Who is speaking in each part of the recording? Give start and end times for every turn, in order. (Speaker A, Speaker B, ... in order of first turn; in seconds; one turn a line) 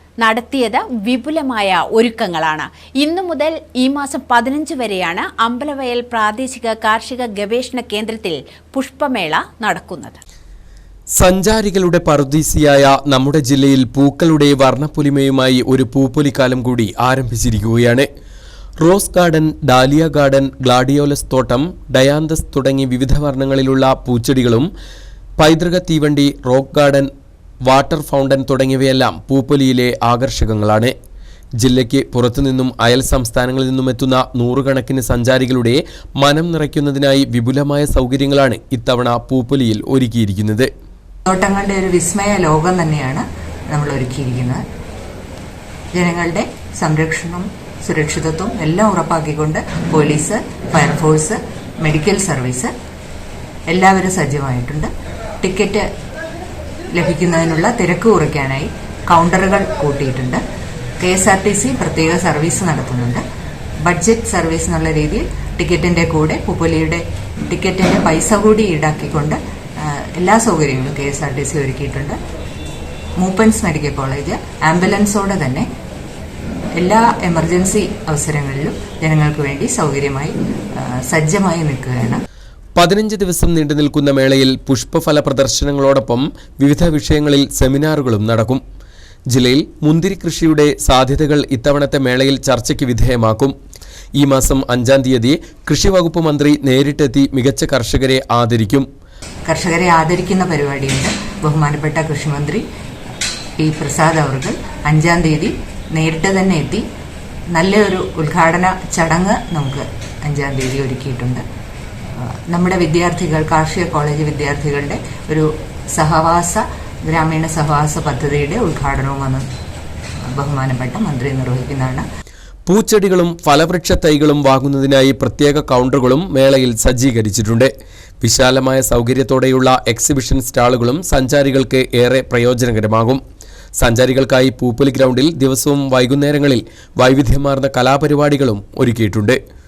Speaker A: 0.2-10.2
Speaker B: 11.2-18.1
Speaker B: 18.8-24.7
Speaker B: 25.4-27.1
Speaker B: 27.6-30.9
Speaker B: 31.6-40.7
Speaker C: 41.3-44.6
Speaker C: 45.9-52.7
Speaker C: 53.7-54.9
Speaker C: 55.4-55.9
Speaker C: 56.9-60.4
Speaker C: 61.0-63.2
Speaker C: 63.9-72.2
Speaker C: 73.2-75.7
Speaker C: 76.8-82.2
Speaker B: 82.8-88.6
Speaker B: 89.3-93.5
Speaker B: 94.2-98.9
Speaker C: 99.5-102.6
Speaker C: 103.6-106.8
Speaker C: 107.5-111.4
Speaker C: 112.2-119.5
Speaker C: 120.3-122.0
Speaker B: 122.7-127.7
Speaker B: 128.2-133.2
Speaker B: 133.8-139.4